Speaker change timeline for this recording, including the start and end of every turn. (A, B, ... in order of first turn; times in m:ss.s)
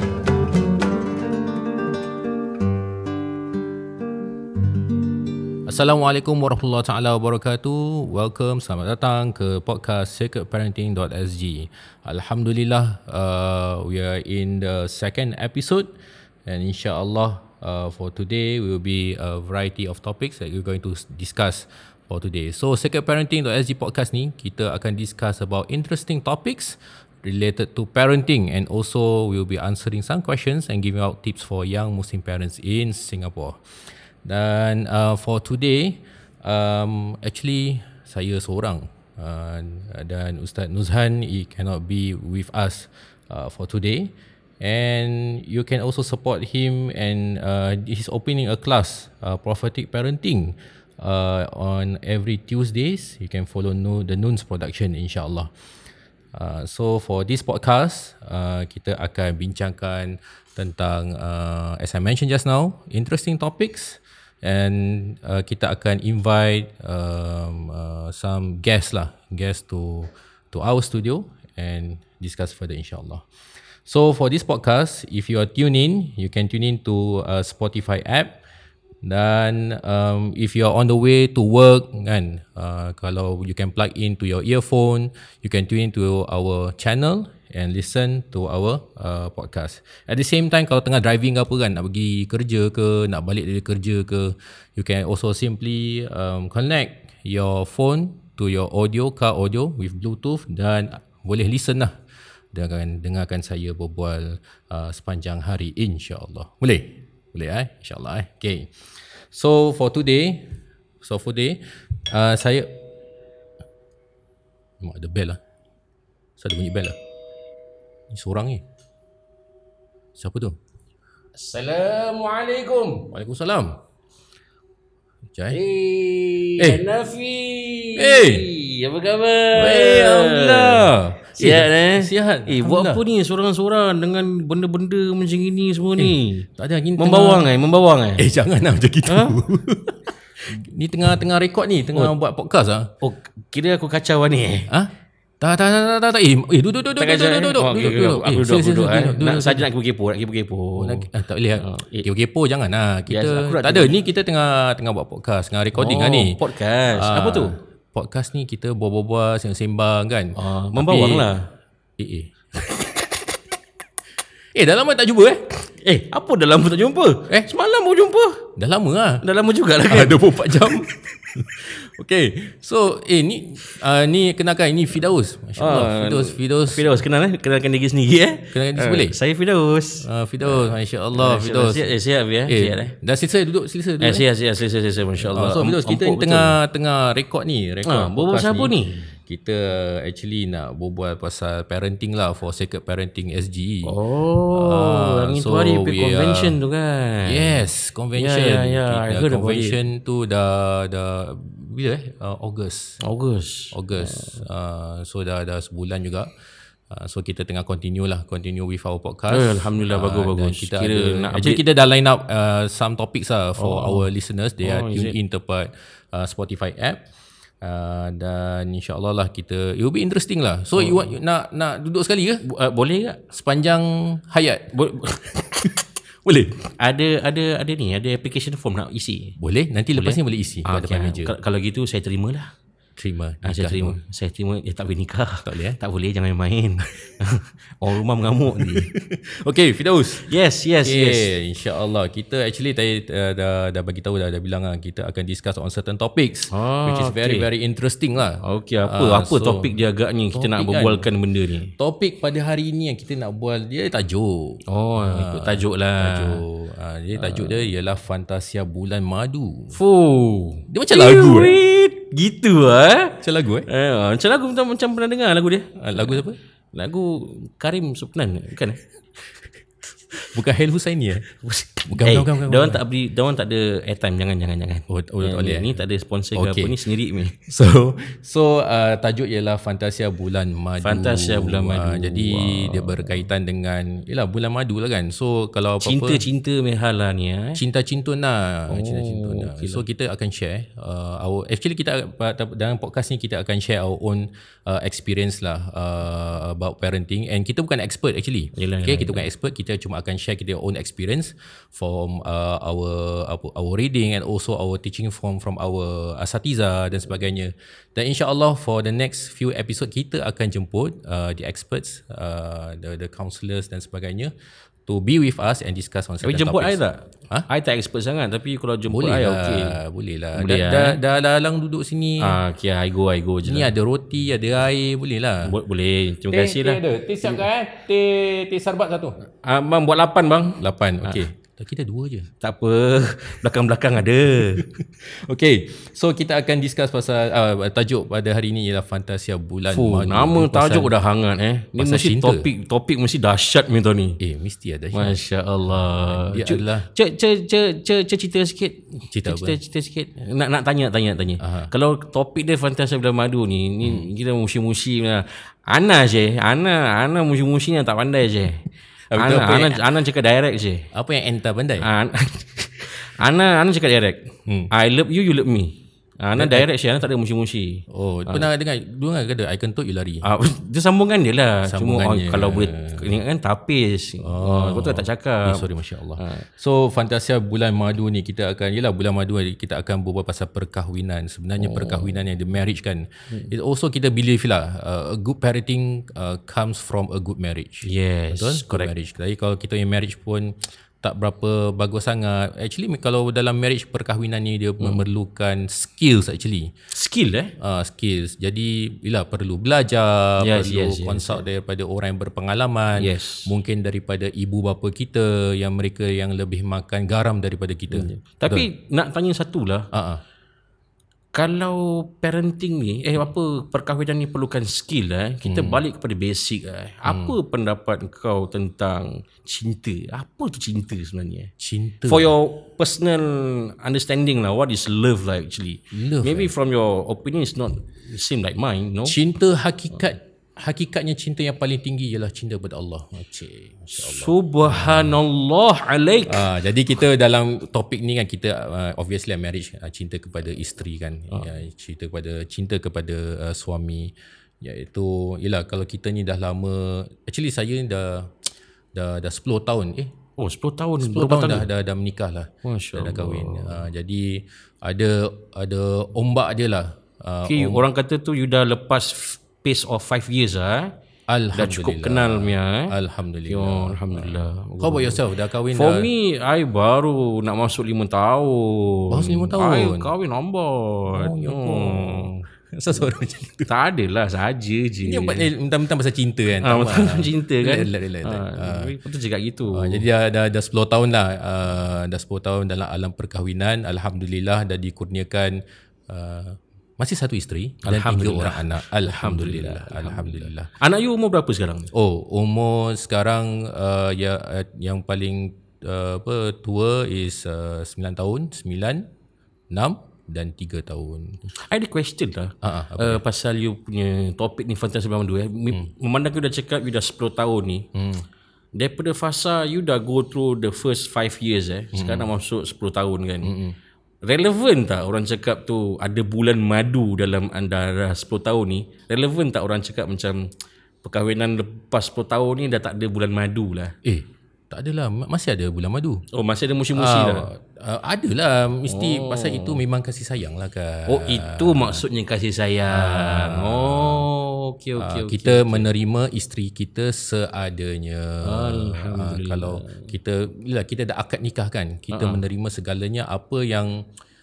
0:05.6-0:15.9 A
0:16.4-0:33.6 A
0:34.2-0:55.5 A
0:56.3-1:13.2 A
1:13.8-1:18.4 A
1:19.0-1:42.0 A
1:42.5-1:52.8 A
1:54.8-1:55.4 A
1:56.4-1:57.0 A
1:58.1-1:58.6 A
2:00.2-2:00.6 A
2:01.4-2:03.1 B
2:03.1-2:03.8 A
2:05.3-2:05.6 A
2:05.5-2:18.3 B
2:08.0-2:08.4 A
2:09.5-2:13.0 A
2:16.0-2:17.5 A
2:18.2-2:22.9 A
2:19.0-2:19.4 B
2:23.0-2:24.7 B
2:24.7-2:29.7 A
2:27.0-2:32.1 B
2:30.8-2:36.4 A
2:33.1-2:34.0 B
2:35.7-2:37.6 B
2:36.9-2:41.3 A
2:40.3-2:41.5 B
2:42.0-2:43.0 A
2:44.5-2:45.5 A
2:45.8-2:48.4 B
2:48.6-2:49.2 A
2:49.2-2:50.6 B
2:49.9-2:56.9 A
2:55.6-3:03.0 B
2:58.5-2:59.2 A
3:00.0-3:01.9 A
3:02.4-3:04.2 A
3:04.0-3:06.6 B
3:05.2-3:14.0 A
3:07.8-3:09.1 B
3:13.8-3:17.6 B
3:14.5-3:16.6 A
3:17.2-3:23.0 A
3:18.2-3:19.8 B
3:23.0-3:24.4 B
3:23.7-3:26.3 A
3:26.9-3:37.0 A
3:29.3-3:31.6 B
3:33.6-3:34.1 B
3:34.6-3:35.2 B
3:37.6-3:42.4 A
3:40.8-3:41.1 B
3:42.4-3:43.2 B
3:43.3-3:44.8 A
3:44.7-3:45.4 B
3:45.6-3:46.6 A
3:46.8-3:49.4 B
3:49.4-3:51.3 A
3:49.9-3:52.5 B
3:53.0-3:54.0 A
3:53.4-3:58.9 B
3:55.4-3:55.8 A
3:58.6-4:00.2 A
4:00.2-4:01.3 B
4:00.8-4:09.7 A
4:06.5-4:07.5 B
4:08.4-4:11.7 B
4:10.3-4:11.1 A
4:11.8-4:19.8 A
4:14.7-4:16.4 B
4:17.2-4:17.6 B
4:19.7-4:26.2 B
4:20.7-4:21.6 A
4:23.2-4:23.7 A
4:25.8-4:26.4 A
4:26.7-4:28.8 B
4:30.3-4:31.3 A
4:31.4-4:37.4 B
4:31.9-4:32.8 A
4:34.9-4:35.8 A
4:36.3-4:36.8 A
4:37.3-4:46.2 A
4:40.8-4:43.2 B
4:45.8-4:47.6 B
4:47.5-5:14.3 A
4:48.7-4:49.8 B
4:58.6-4:59.3 B
5:14.8-5:17.5 A
5:16.2-5:19.8 B
5:18.9-5:22.4 A
5:20.3-5:21.0 B
5:22.2-5:23.7 B
5:23.4-5:25.6 A
5:25.4-5:27.4 B
5:26.3-5:29.2 A
5:29.4-5:31.2 B
5:30.6-5:32.3 A
5:32.4-5:34.6 B
5:34.4-5:40.9 A
5:39.7-5:44.2 B
5:41.8-5:42.4 A
5:44.2-5:45.2 A
5:44.9-5:58.6 B
5:45.8-5:46.9 A
5:49.1-5:49.6 A
5:51.4-5:51.7 A
5:59.1-5:59.8 A
5:59.2-6:00.8 B
6:00.9-6:01.9 A
6:01.8-6:08.5 B
6:06.4-6:06.7 A
6:07.9-6:10.3 A
6:10.2-6:15.6 B
6:11.6-6:13.1 A
6:14.2-6:36.7 A
6:16.2-6:16.5 B
6:21.6-6:22.2 B
6:27.8-6:28.9 B
6:36.9-6:37.5 B
6:37.6-6:48.7 A
6:40.4-6:41.4 B
6:43.0-6:43.5 B
6:47.9-6:49.9 B
6:49.9-6:50.2 A
6:51.3-7:01.5 B
6:55.4-6:55.8 A
6:57.0-6:57.3 A
7:01.6-7:02.3 A
7:02.1-7:09.2 B
7:05.9-7:06.5 A
7:09.0-7:15.2 A
7:13.9-7:16.4 B
7:16.3-7:30.1 A
7:30.4-7:31.7 B
7:31.0-7:37.8 A
7:32.6-7:33.8 B
7:37.4-7:40.9 B
7:41.3-7:46.1 A
7:41.5-7:42.9 B
7:43.5-7:45.2 B
7:45.7-7:52.4 B
7:49.1-7:50.1 A
7:51.1-7:53.7 A
7:53.7-7:55.5 B
7:55.0-7:58.9 A
7:56.6-8:00.0 B
7:59.7-8:10.7 A
8:07.8-8:11.9 B
8:11.9-8:19.1 A
8:19.7-8:21.4 A
8:21.5-8:27.9 B
8:22.6-8:23.2 A
8:27.9-8:28.2 A
8:28.8-8:33.5 B
8:31.9-8:32.3 A
8:33.4-8:33.8 A
8:34.2-8:40.5 B
8:41.0-8:44.0 B
8:44.0-8:46.2 A
8:46.3-8:47.5 B
8:46.9-8:52.0 A
8:48.9-8:49.8 B
8:51.1-8:55.9 B
8:52.9-8:54.3 A
8:55.0-9:04.0 A
8:58.4-9:00.1 B
9:02.1-9:02.4 B